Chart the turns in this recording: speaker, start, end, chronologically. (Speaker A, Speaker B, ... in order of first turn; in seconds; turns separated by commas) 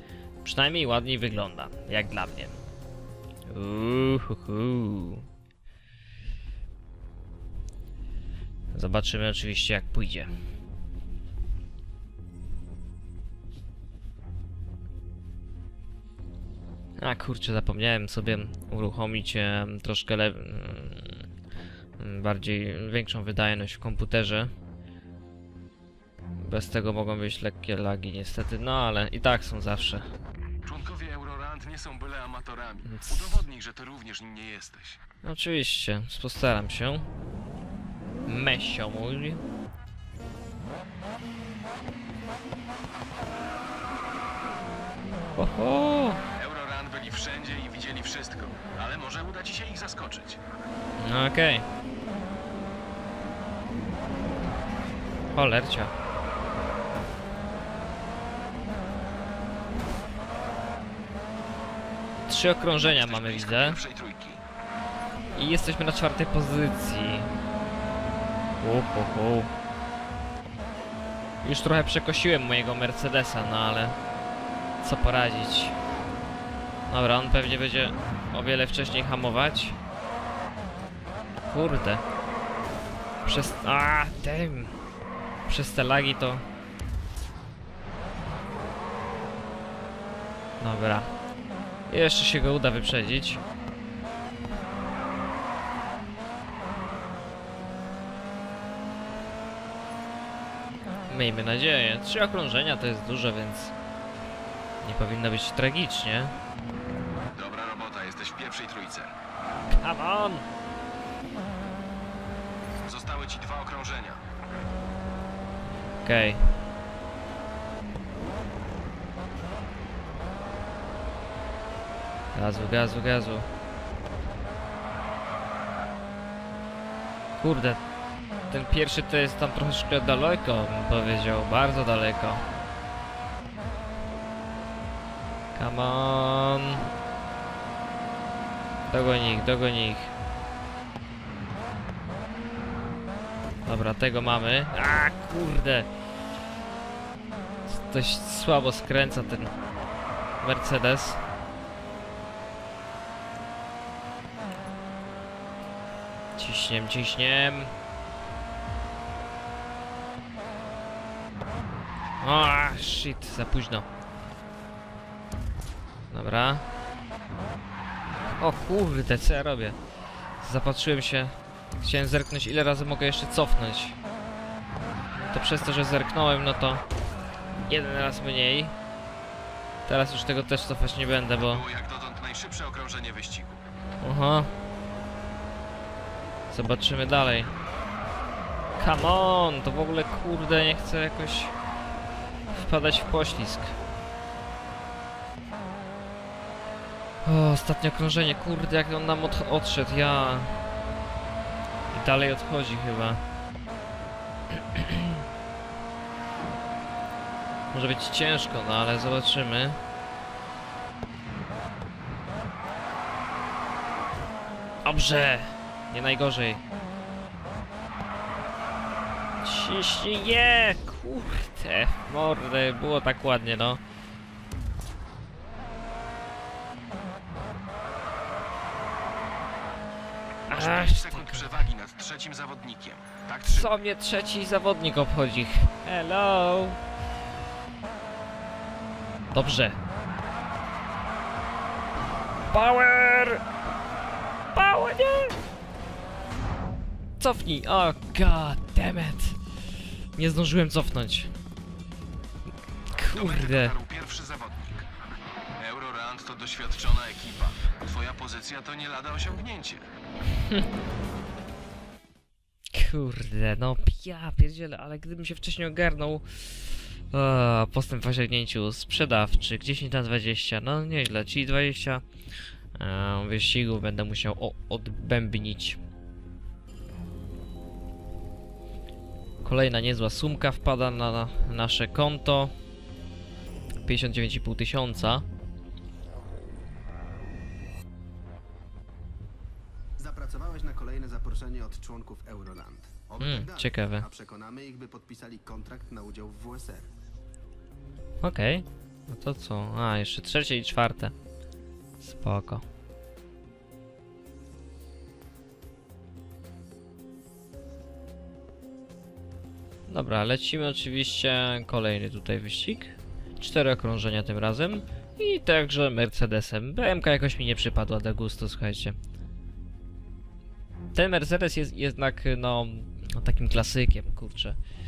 Speaker A: 0.4-2.6, Speaker A: 3.5-5.3, Speaker A: 8.7-10.3, Speaker A: 17.0-21.2, Speaker A: 22.0-24.5, Speaker A: 26.4-30.1, Speaker B: 30.6-35.0, Speaker A: 32.9-33.4, Speaker A: 35.2-37.1, Speaker A: 38.3-39.4, Speaker A: 45.4-46.2, Speaker B: 46.4-50.4, Speaker A: 51.0-51.6, Speaker A: 55.3-55.9, Speaker A: 62.3-63.8, Speaker B: 62.8-64.4, Speaker A: 65.3-67.3, Speaker A: 68.6-69.5, Speaker A: 71.4-74.0, Speaker A: 74.8-75.8, Speaker A: 76.9-79.8, Speaker A: 81.5-82.0, Speaker A: 83.2-84.7, Speaker A: 85.5-86.4, Speaker A: 90.6-91.1, Speaker A: 91.9-93.4, Speaker A: 101.1-103.7, Speaker A: 104.8-106.3, Speaker B: 107.3-109.1, Speaker A: 109.7-110.5, Speaker B: 112.8-114.2, Speaker A: 116.0-116.4, Speaker A: 122.3-123.5, Speaker A: 127.4-127.8, Speaker A: 128.5-132.4, Speaker A: 135.6-136.8, Speaker A: 138.9-140.1, Speaker A: 143.7-145.9, Speaker A: 147.7-149.5, Speaker A: 150.4-151.2, Speaker A: 156.4-157.7, Speaker A: 162.2-163.9, Speaker A: 166.1-166.6, Speaker A: 168.4-169.8, Speaker A: 170.4-174.0, Speaker A: 175.2-176.8, Speaker A: 177.7-178.7, Speaker A: 179.9-181.6, Speaker B: 181.5-183.6, Speaker A: 184.0-184.5, Speaker A: 186.5-187.5, Speaker A: 188.8-191.5, Speaker A: 192.5-193.8, Speaker A: 197.2-200.6, Speaker A: 201.9-203.2, Speaker A: 204.7-205.2, Speaker A: 207.7-209.8, Speaker A: 214.8-216.6, Speaker A: 219.4-223.8, Speaker B: 230.5-233.7, Speaker A: 230.5-231.5, Speaker A: 233.5-236.8, Speaker A: 239.3-239.8, Speaker A: 242.5-243.4, Speaker A: 244.5-245.4, Speaker A: 247.2-249.4, Speaker A: 250.2-251.3, Speaker A: 252.9-253.7, Speaker B: 253.1-254.9, Speaker B: 255.6-259.9, Speaker A: 260.4-260.7, Speaker A: 262.7-272.0, Speaker A: 272.8-275.8, Speaker A: 279.4-282.5, Speaker A: 283.9-285.2, Speaker C: 290.0-296.9, Speaker A: 293.2-294.1, Speaker A: 298.2-301.1, Speaker A: 302.0-302.6, Speaker A: 309.9-319.0, Speaker A: 320.9-324.6